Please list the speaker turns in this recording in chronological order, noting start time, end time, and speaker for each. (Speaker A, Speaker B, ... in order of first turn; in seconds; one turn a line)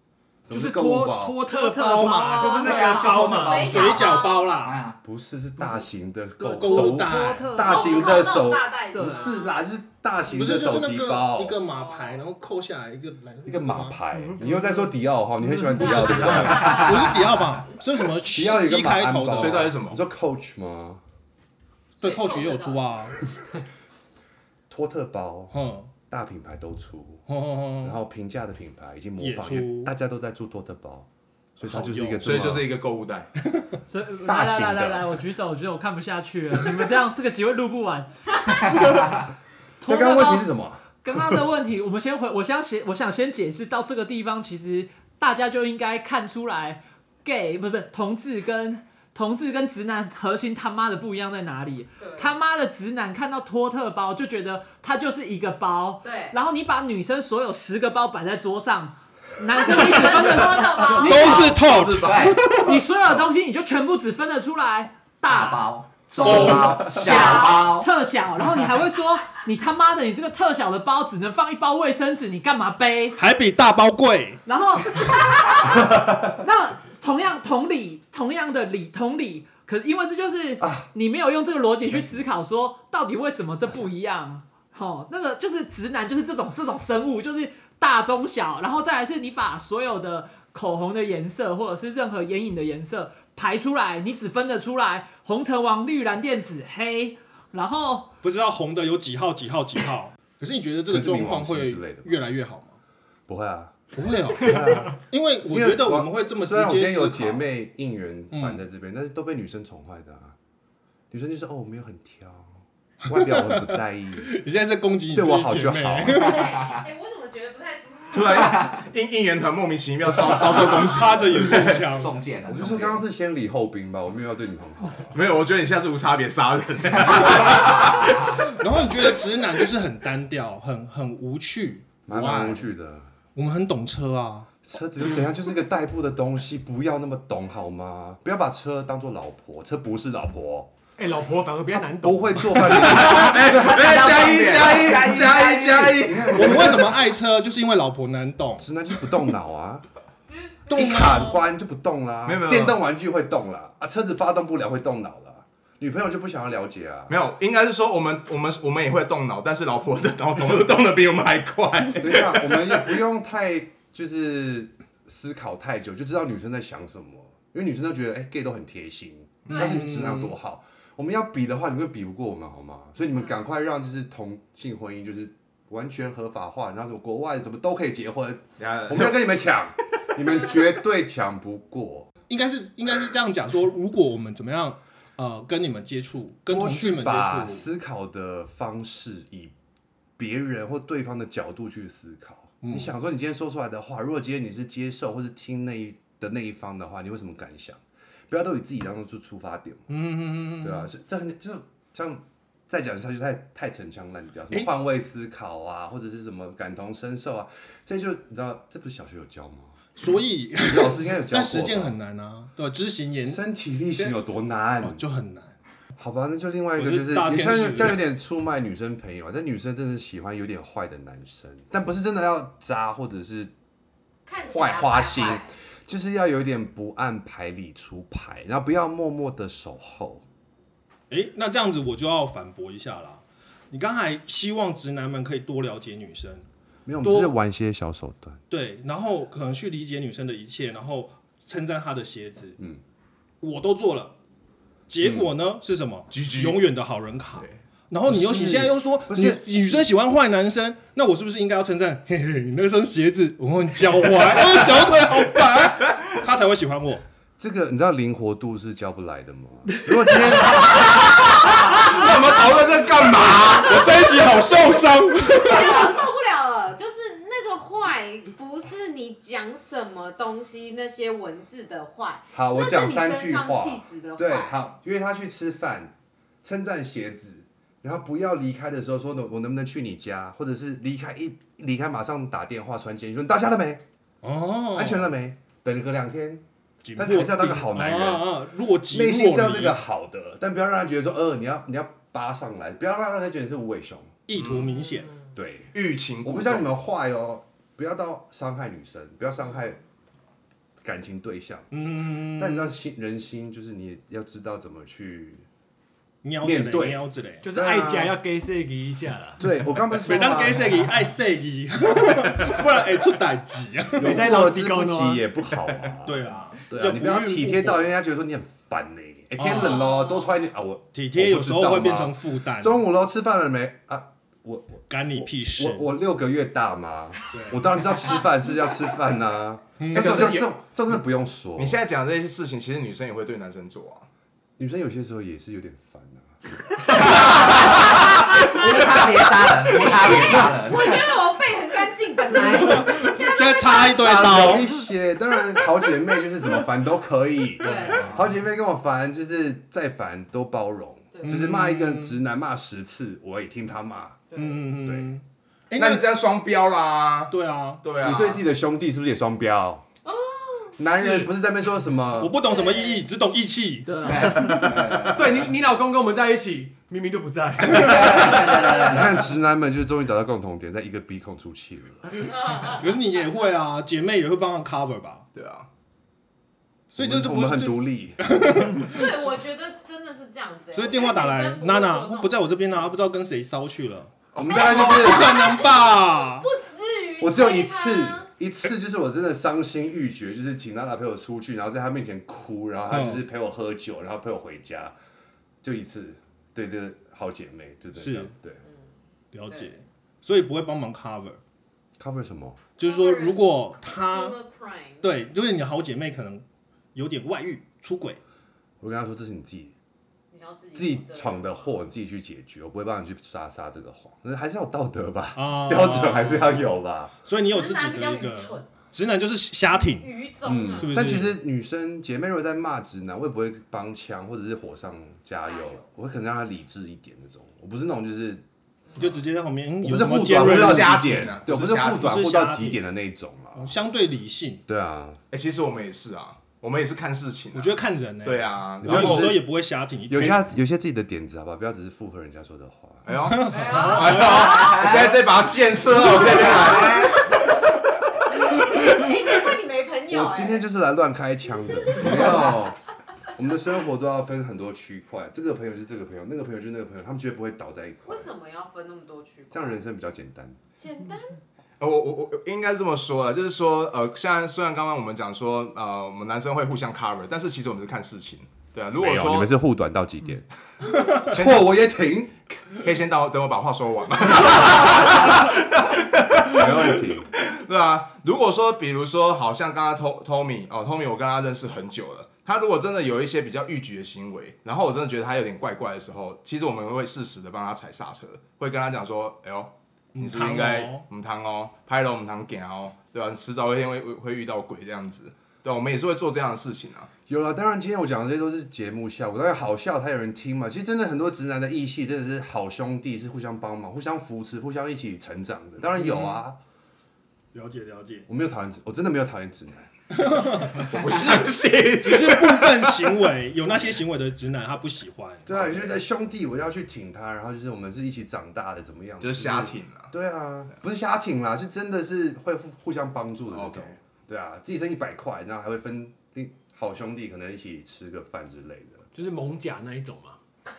Speaker A: 0.5-1.4
Speaker B: 0.5-3.7
Speaker C: 1.5-2.8
Speaker D: 2.1-4.8
Speaker E: 2.4-4.6
Speaker F: 3.8-5.0
Speaker A: 5.0-11.6
Speaker D: 6.4-7.6
Speaker C: 6.6-9.3
Speaker E: 7.6-9.5
Speaker D: 10.3-14.0
Speaker E: 11.6-12.2
Speaker A: 13.4-16.9
Speaker B: 14.2-14.7
Speaker C: 15.7-16.8
Speaker F: 16.0-17.4
Speaker D: 16.6-19.7
Speaker A: 18.3-21.0
Speaker G: 19.3-20.0
Speaker D: 22.0-23.2
Speaker E: 22.0-23.3
Speaker A: 24.7-25.5
Speaker D: 25.5-25.9
Speaker A: 26.1-27.2
Speaker D: 27.3-28.0
Speaker A: 27.8-32.6
Speaker D: 29.2-29.9
Speaker D: 31.6-32.5
Speaker G: 32.2-33.3
Speaker C: 33.9-38.1
Speaker A: 34.2-35.2
Speaker C: 39.8-40.5
Speaker A: 39.8-40.8
Speaker C: 41.0-61.4
Speaker E: 52.0-52.3
Speaker E: 56.0-56.4
Speaker E: 59.5-61.5
Speaker D: 60.9-62.8
Speaker F: 60.9-62.5
Speaker G: 61.5-62.3
Speaker C: 62.6-65.7
Speaker F: 65.2-67.9
Speaker D: 66.2-67.2
Speaker C: 66.2-73.2
Speaker D: 73.2-74.4
Speaker C: 74.5-98.2
Speaker A: 80.6-80.9
Speaker D: 98.2-102.8
Speaker A: 100.9-102.2
Speaker A: 103.3-104.9
Speaker D: 103.9-107.4
Speaker A: 105.5-110.3
Speaker D: 108.3-108.6
Speaker A: 111.1-114.3
Speaker D: 113.1-116.5
Speaker A: 115.1-116.3
Speaker E: 116.1-118.5
Speaker F: 116.4-116.8
Speaker G: 118.1-121.9
Speaker D: 120.7-122.2
Speaker F: 121.3-123.0
Speaker A: 122.5-125.2
Speaker G: 125.1-128.5
Speaker D: 128.4-132.6
Speaker A: 132.1-133.1
Speaker D: 133.3-134.5
Speaker A: 134.6-140.7
Speaker B: 141.0-142.6
Speaker A: 142.0-143.5
Speaker G: 142.7-146.7
Speaker F: 143.0-146.1
Speaker A: 145.9-147.0
Speaker D: 146.3-148.7
Speaker A: 148.6-149.8
Speaker D: 150.7-151.4
Speaker A: 150.7-157.2
Speaker G: 152.2-152.8
Speaker G: 157.1-162.9
Speaker A: 162.0-182.1
Speaker D: 169.5-170.3
Speaker G: 178.6-179.3
Speaker D: 182.3-187.7
Speaker A: 186.5-189.5
Speaker A: 190.2-199.9
Speaker D: 192.6-192.9
Speaker D: 199.9-200.9
Speaker A: 200.6-209.9
Speaker D: 210.0-213.4
Speaker A: 210.6-211.9
Speaker A: 213.2-215.0
Speaker D: 214.8-215.5
Speaker A: 216.0-223.5
Speaker D: 216.8-218.0
Speaker E: 224.2-225.5
Speaker A: 224.4-230.2
Speaker D: 231.1-236.4
Speaker A: 236.8-238.4
Speaker D: 237.0-237.3
Speaker D: 238.5-242.6
Speaker D: 243.4-244.1
Speaker D: 244.9-257.0
Speaker A: 245.0-245.3
Speaker G: 246.1-246.6
Speaker A: 248.0-249.8
Speaker A: 257.4-260.9
Speaker G: 260.5-263.9
Speaker E: 261.7-264.4
Speaker D: 263.6-266.0
Speaker E: 265.3-274.6
Speaker A: 272.3-283.8
Speaker D: 284.2-285.1
Speaker A: 284.7-286.4
Speaker D: 286.8-289.8
Speaker A: 286.9-294.1
Speaker D: 294.3-295.1
Speaker G: 294.4-294.8
Speaker A: 295.3-299.8
Speaker G: 295.7-296.7
Speaker A: 300.8-305.4
Speaker D: 301.7-302.7
Speaker D: 306.2-307.4
Speaker A: 306.4-308.1
Speaker B: 307.4-309.4
Speaker A: 309.4-310.9
Speaker D: 310.0-314.2
Speaker A: 314.0-331.8
Speaker B: 314.0-315.3
Speaker D: 316.0-317.8
Speaker D: 319.4-319.9
Speaker E: 319.7-320.3
Speaker D: 320.9-322.8
Speaker D: 324.9-325.9
Speaker D: 327.3-327.6
Speaker D: 329.8-330.4
Speaker G: 329.9-330.5
Speaker G: 331.6-334.1
Speaker A: 334.6-336.5
Speaker F: 336.9-341.2
Speaker E: 338.6-344.6
Speaker D: 342.3-344.9
Speaker A: 344.0-354.3
Speaker E: 347.6-348.1
Speaker D: 347.6-348.1
Speaker E: 351.1-351.5
Speaker D: 351.2-352.1
Speaker E: 354.3-354.6
Speaker D: 354.4-356.1
Speaker A: 354.8-355.1
Speaker G: 355.8-358.4
Speaker D: 357.3-357.8
Speaker A: 358.0-359.8
Speaker E: 360.0-361.1
Speaker A: 360.8-362.4
Speaker D: 362.2-364.1
Speaker E: 362.4-363.0
Speaker C: 363.9-364.7
Speaker F: 364.0-365.4
Speaker B: 365.0-368.7
Speaker F: 367.8-369.2
Speaker A: 368.8-372.1
Speaker D: 372.6-375.2
Speaker G: 375.3-375.7
Speaker D: 376.9-379.2
Speaker A: 377.0-378.7
Speaker E: 378.8-382.9
Speaker D: 380.7-386.5
Speaker A: 384.3-385.4
Speaker E: 384.4-388.3
Speaker A: 387.2-394.9
Speaker D: 392.9-393.2
Speaker A: 395.6-398.6
Speaker D: 398.0-398.3
Speaker D: 399.3-401.4
Speaker A: 402.0-402.6
Speaker D: 402.8-404.4
Speaker E: 402.8-405.1
Speaker D: 405.0-408.2
Speaker A: 408.8-409.8
Speaker E: 410.3-411.6
Speaker A: 410.7-417.1
Speaker D: 415.3-416.7
Speaker D: 417.2-420.1
Speaker E: 417.4-418.7
Speaker E: 419.7-421.2
Speaker A: 420.4-428.4
Speaker D: 420.7-421.3
Speaker E: 425.4-425.8
Speaker D: 428.9-432.8
Speaker A: 429.8-433.7
Speaker G: 430.4-432.1
Speaker D: 433.5-434.6
Speaker A: 434.7-435.2
Speaker G: 435.3-439.3
Speaker D: 437.5-440.4
Speaker A: 438.8-439.4
Speaker A: 440.1-443.1
Speaker G: 443.1-447.3
Speaker D: 443.2-444.3
Speaker E: 443.5-444.6
Speaker F: 444.5-445.2
Speaker F: 446.2-447.1
Speaker E: 448.4-450.6
Speaker A: 450.1-452.8
Speaker E: 451.9-452.6
Speaker A: 453.3-458.3
Speaker E: 458.0-459.8
Speaker A: 459.5-460.6
Speaker E: 460.8-461.4
Speaker G: 461.8-469.5
Speaker A: 468.9-470.4
Speaker A: 471.2-472.3
Speaker G: 472.7-497.1
Speaker A: 476.5-477.3
Speaker D: 490.1-491.0
Speaker A: 497.3-506.6
Speaker D: 506.0-506.4
Speaker D: 507.5-508.3
Speaker A: 508.3-510.7
Speaker D: 510.1-515.6
Speaker G: 510.7-513.1
Speaker A: 515.5-529.0
Speaker G: 519.2-520.1
Speaker G: 523.5-524.0
Speaker B: 529.1-530.4